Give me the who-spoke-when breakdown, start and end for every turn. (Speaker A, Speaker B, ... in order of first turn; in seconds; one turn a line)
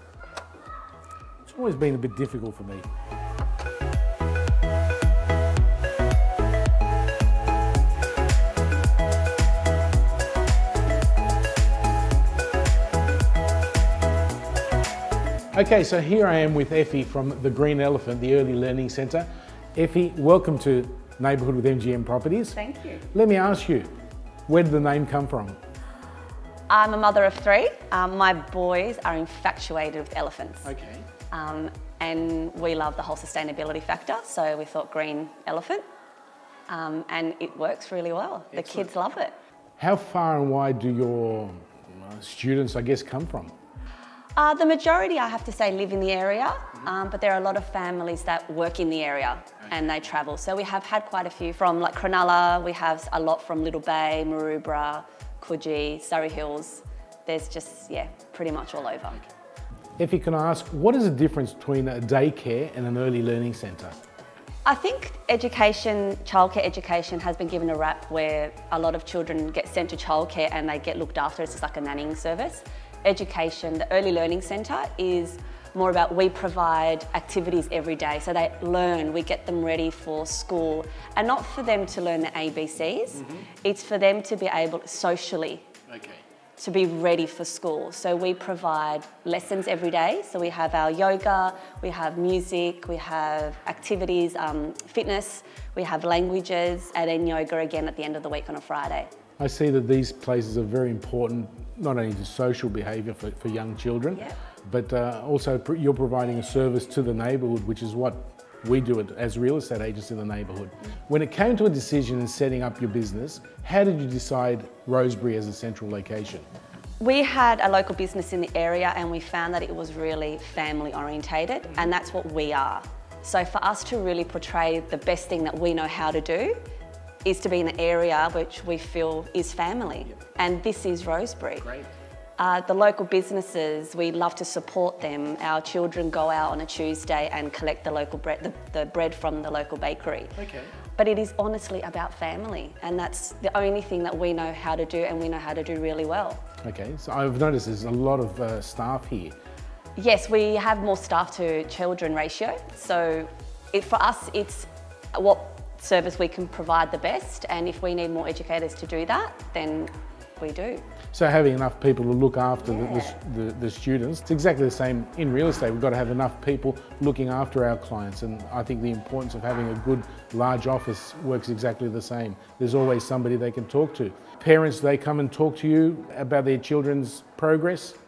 Speaker A: 1.4-2.9
Speaker A: 15.5-22.6
Speaker B: 22.6-23.1
Speaker A: 23.1-23.9
Speaker A: 24.5-25.6
Speaker B: 26.7-30.7
Speaker A: 30.6-31.1
Speaker B: 31.3-35.8
Speaker B: 36.7-39.3
Speaker A: 38.5-38.8
Speaker A: 39.8-43.5
Speaker B: 44.4-59.2
Speaker A: 60.0-64.0
Speaker B: 64.7-85.7
Speaker A: 85.9-86.2
Speaker B: 86.6-99.1
Speaker A: 99.4-116.5
Speaker B: 117.0-126.6
Speaker B: 127.2-131.7
Speaker A: 131.6-131.9
Speaker B: 132.4-140.4
Speaker A: 140.4-140.7
Speaker B: 141.0-146.4
Speaker A: 146.6-149.3
Speaker B: 150.0-160.8
Speaker A: 161.1-178.0
Speaker B: 162.7-163.2